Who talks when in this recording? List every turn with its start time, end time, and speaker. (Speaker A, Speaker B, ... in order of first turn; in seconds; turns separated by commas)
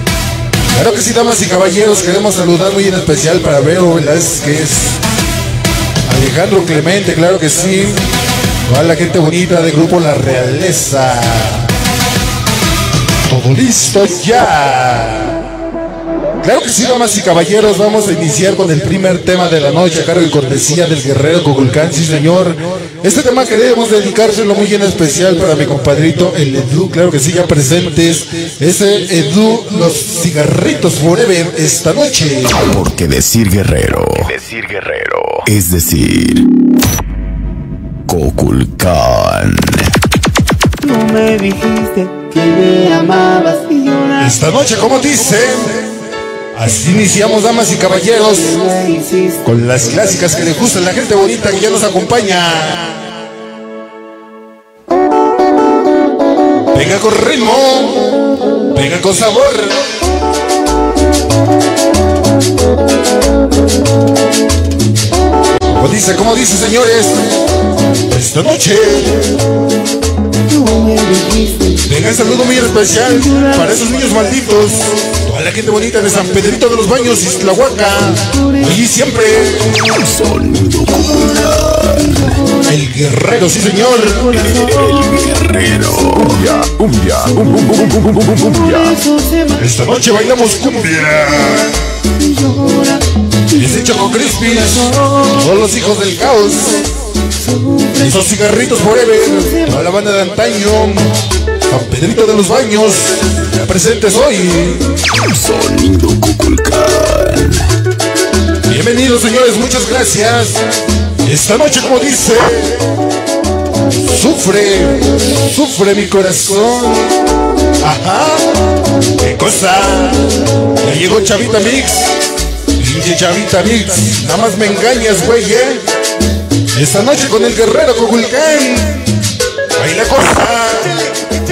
Speaker A: 0.7-5.0, Speaker A: 6.1-8.1, Speaker A: 8.7-11.7, Speaker A: 13.3-15.4, Speaker A: 16.4-32.7, Speaker B: 32.6-36.5, Speaker B: 38.1-40.0, Speaker C: 40.8-44.2, Speaker A: 44.1-45.9, Speaker A: 46.5-48.9, Speaker C: 48.6-49.4, Speaker A: 49.4-53.0, Speaker A: 56.7-58.2, Speaker A: 58.7-59.8, Speaker A: 65.7-67.4, Speaker A: 68.1-69.4, Speaker C: 70.5-71.8, Speaker A: 71.8-79.8, Speaker B: 79.8-82.4, Speaker A: 82.5-84.5, Speaker B: 84.3-89.0, Speaker C: 88.5-89.5, Speaker A: 89.5-91.8, Speaker C: 92.2-93.0, Speaker A: 93.5-96.9, Speaker A: 97.8-104.9, Speaker B: 105.2-107.7, Speaker A: 108.7-110.7, Speaker A: 111.2-112.9, Speaker A: 113.9-117.2, Speaker A: 117.8-118.6, Speaker A: 119.2-122.1, Speaker A: 122.7-125.8, Speaker A: 126.7-129.1, Speaker A: 129.8-131.1